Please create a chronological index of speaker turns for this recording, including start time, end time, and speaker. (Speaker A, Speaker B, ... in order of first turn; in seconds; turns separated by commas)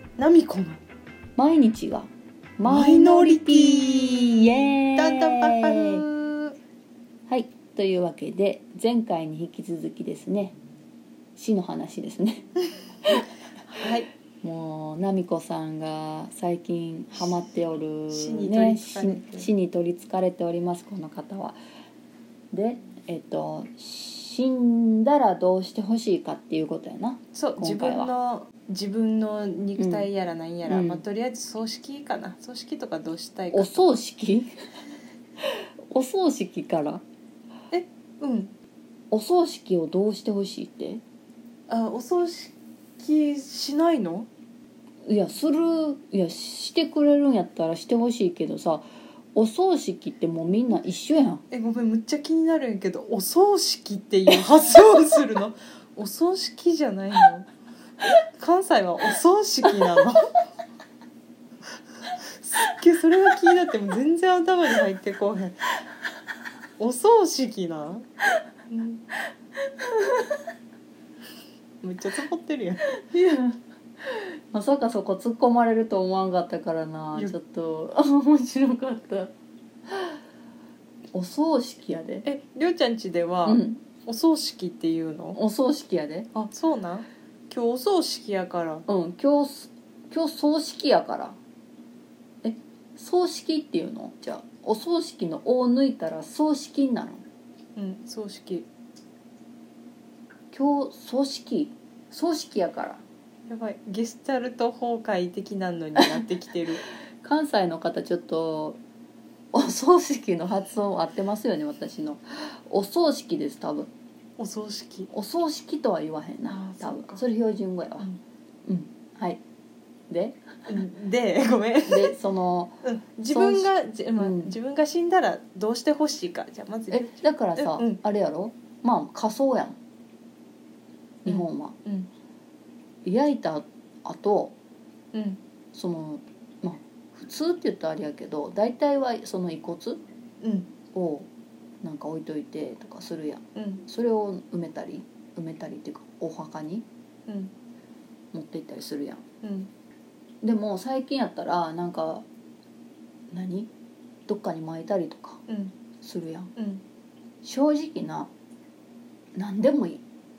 Speaker A: 0.2-0.8, Speaker B: 1.4-6.0, Speaker A: 2.6-6.5, Speaker B: 7.3-10.6, Speaker B: 11.3-12.5, Speaker A: 13.7-14.1, Speaker B: 14.4-21.6, Speaker A: 18.1-19.5, Speaker B: 22.5-28.1, Speaker A: 27.3-33.9, Speaker B: 29.8-30.1, Speaker B: 30.7-31.0, Speaker B: 33.5-34.5, Speaker B: 35.4-37.0, Speaker A: 37.7-38.5, Speaker B: 39.1-41.0, Speaker A: 41.7-44.3, Speaker B: 45.0-51.4, Speaker A: 51.5-57.5, Speaker A: 58.4-60.4, Speaker B: 59.8-60.0, Speaker A: 62.2-65.7, Speaker A: 66.8-68.0, Speaker A: 68.7-69.0, Speaker B: 69.8-70.4, Speaker A: 71.8-73.0, Speaker B: 73.0-79.3, Speaker B: 79.9-80.2, Speaker B: 81.1-82.2, Speaker A: 82.2-85.4, Speaker B: 83.4-83.8, Speaker B: 85.3-86.3, Speaker A: 86.3-88.8, Speaker B: 88.8-91.4, Speaker B: 92.4-97.2, Speaker A: 97.8-98.7, Speaker B: 100.5-103.0, Speaker A: 103.5-106.8, Speaker B: 107.2-108.8, Speaker B: 109.5-113.9, Speaker A: 114.4-115.1, Speaker B: 115.1-118.1, Speaker A: 116.5-117.2, Speaker B: 118.6-119.4, Speaker B: 120.1-120.7, Speaker A: 120.7-122.1, Speaker B: 121.8-122.8, Speaker A: 122.8-128.0, Speaker B: 123.3-124.5, Speaker B: 126.9-129.8, Speaker B: 131.2-131.8, Speaker A: 131.2-132.1, Speaker B: 133.0-134.5, Speaker A: 135.1-135.4, Speaker B: 135.7-140.0, Speaker A: 140.4-140.7, Speaker B: 140.9-141.3, Speaker B: 141.8-146.9, Speaker A: 143.6-143.8, Speaker A: 147.3-147.5, Speaker B: 148.3-149.2, Speaker A: 149.4-149.7, Speaker B: 150.4-152.2, Speaker B: 153.3-153.7, Speaker B: 154.3-155.4, Speaker A: 155.5-155.7, Speaker B: 156.0-156.5, Speaker A: 156.6-156.8, Speaker B: 157.4-158.3, Speaker B: 159.3-160.0